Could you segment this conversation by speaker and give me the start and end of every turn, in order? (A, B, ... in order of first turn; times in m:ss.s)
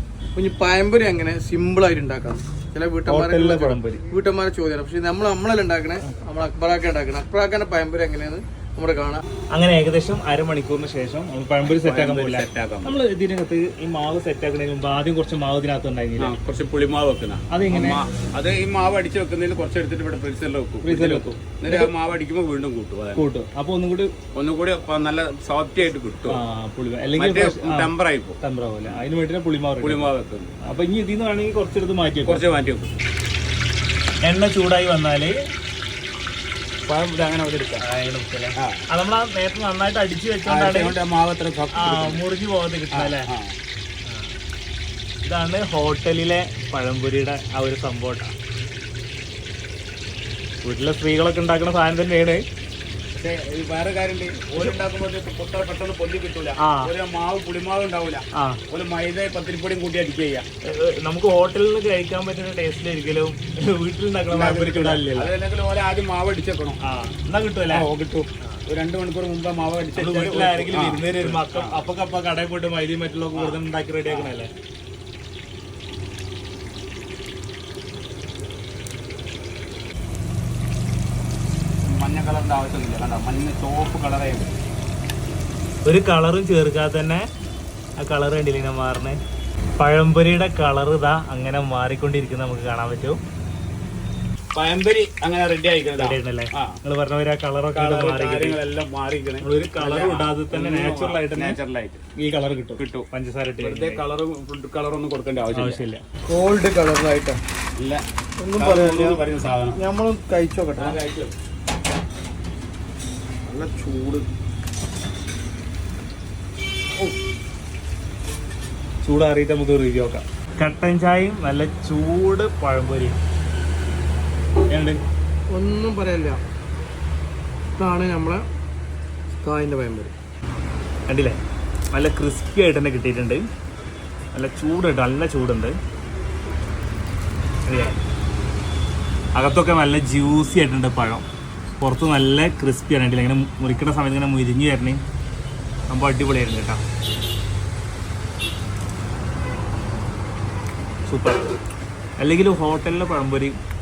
0:00.3-0:09.2 A
0:03.0-0:04.0 B
0:09.5-0:16.4 B
0:11.6-0:13.0 C
0:16.2-0:23.2 C
0:17.5-0:18.0 B
0:20.8-0:21.9 B
0:23.2-0:24.1 B
0:24.3-0:26.4 C
0:26.3-0:30.1 B
0:27.2-0:29.0 C
0:29.8-0:30.5 C
0:30.6-0:32.5 B
0:32.2-0:32.9 C
0:34.2-0:35.4 B
0:36.8-0:37.8 C
0:37.8-0:41.0 B
0:38.6-0:38.8 C
0:40.4-0:42.2 C
0:41.7-0:43.3 B
0:42.9-0:43.6 C
0:44.1-0:44.3 B
0:45.2-0:48.3 B
0:50.6-0:52.4 B
0:53.1-1:00.4 C
0:54.5-0:54.8 B
0:56.6-0:56.9 B
0:58.3-0:58.6 B
1:00.6-1:05.3 B
1:04.3-1:06.8 C
1:06.8-1:07.9 B
1:07.7-1:11.8 C
1:10.0-1:14.5 B
1:13.3-1:14.3 C
1:21.8-1:24.5 C
1:25.8-1:27.2 B
1:28.0-1:29.2 B
1:29.8-1:33.2 B
1:34.5-1:36.8 C
1:36.0-1:38.6 B
1:37.7-1:42.0 C
1:39.4-1:41.6 B
1:42.2-1:44.0 B
1:42.8-1:43.1 C
1:43.6-1:45.8 C
1:45.5-1:46.0 B
1:46.3-1:47.4 A
1:47.8-1:48.0 C
1:48.4-1:49.2 A
1:48.6-1:49.8 C
1:49.8-1:51.0 A
1:50.8-1:51.3 C
1:53.5-1:54.2 C
1:59.0-2:03.2 B
2:04.7-2:05.0 B
2:05.5-2:06.4 A
2:07.8-2:08.4 A
2:09.4-2:10.1 A
2:11.1-2:11.4 B
2:11.9-2:13.4 B
2:14.3-2:15.8 B
2:17.7-2:18.0 B
2:19.3-2:21.2 B
2:21.8-2:25.0 B
2:25.9-2:26.8 B
2:31.0-2:31.4 B
2:32.2-2:33.5 B